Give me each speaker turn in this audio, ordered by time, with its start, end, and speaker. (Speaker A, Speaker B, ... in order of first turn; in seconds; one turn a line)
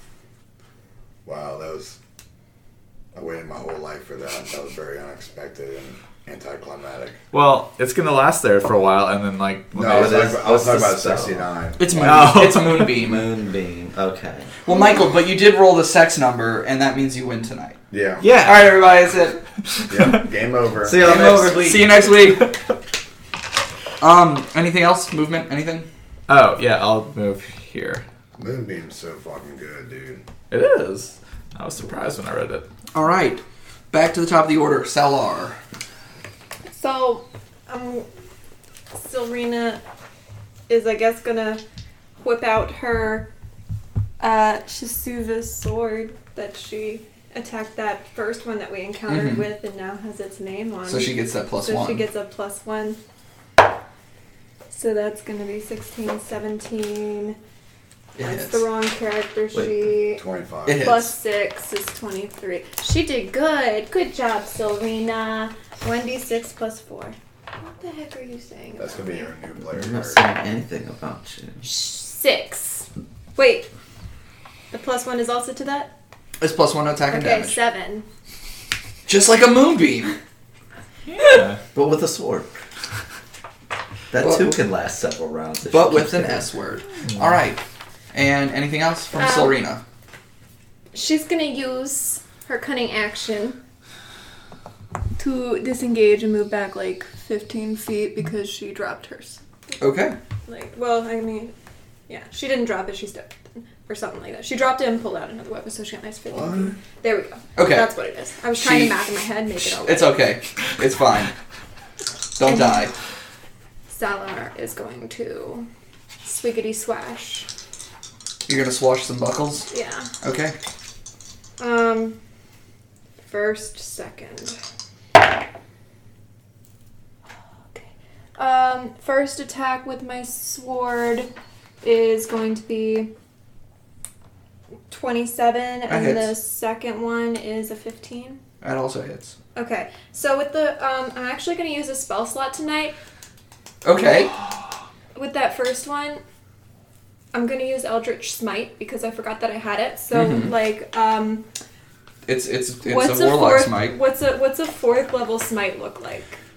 Speaker A: 1.2-2.0
Speaker A: 3.1-7.2
Speaker B: 7.3-10.2
Speaker A: 9.7-12.3
Speaker C: 9.8-11.5
Speaker D: 11.8-13.3
Speaker B: 11.9-13.0
Speaker C: 12.8-14.5
Speaker D: 14.7-17.8
Speaker A: 17.9-18.3
Speaker B: 18.2-18.7
Speaker D: 18.4-19.9
Speaker A: 19.9-21.2
Speaker C: 20.8-22.0
Speaker D: 21.0-22.5
Speaker D: 24.0-25.9
Speaker B: 26.3-28.0
Speaker A: 28.4-30.2
Speaker B: 30.5-32.7
Speaker D: 32.9-35.6
Speaker E: 36.7-38.1
Speaker E: 38.9-39.8
Speaker E: 40.7-41.6
Speaker E: 42.2-43.3
Speaker E: 44.2-53.0
Speaker D: 49.1-49.5
Speaker D: 50.9-52.1
Speaker E: 54.7-57.4
Speaker D: 58.2-58.7
Speaker E: 58.2-60.2
Speaker C: 59.5-59.9
Speaker A: 60.1-61.0
Speaker D: 60.7-61.1
Speaker E: 60.8-69.3
Speaker A: 68.8-70.2
Speaker C: 69.7-71.7
Speaker E: 71.6-73.7
Speaker E: 74.7-75.9
Speaker D: 76.4-77.6
Speaker E: 77.1-78.0
Speaker D: 79.1-80.2
Speaker B: 81.1-81.6
Speaker C: 81.7-82.6
Speaker C: 84.1-86.5
Speaker D: 84.2-84.6
Speaker D: 85.7-87.6
Speaker B: 87.1-87.4
Speaker D: 88.1-89.8
Speaker E: 89.2-89.6
Speaker E: 90.9-93.6
Speaker E: 95.2-99.4
Speaker D: 99.8-100.2
Speaker E: 100.5-101.5
Speaker E: 102.1-110.2
Speaker D: 107.6-107.9
Speaker D: 108.5-109.0
Speaker D: 109.6-111.3
Speaker D: 112.4-112.9
Speaker E: 112.4-112.8
Speaker E: 113.9-115.7
Speaker E: 116.2-117.5
Speaker D: 118.5-119.7
Speaker E: 119.7-120.1
Speaker D: 120.2-120.6
Speaker E: 121.6-122.2
Speaker E: 123.3-124.6
Speaker E: 128.4-131.3
Speaker E: 131.8-133.1
Speaker E: 134.9-138.4
Speaker D: 135.9-136.4
Speaker D: 138.6-139.3
Speaker E: 139.6-143.0
Speaker D: 143.8-144.3
Speaker E: 145.2-146.2
Speaker E: 147.3-151.4
Speaker D: 150.1-150.6
Speaker D: 152.3-154.0
Speaker E: 152.8-156.4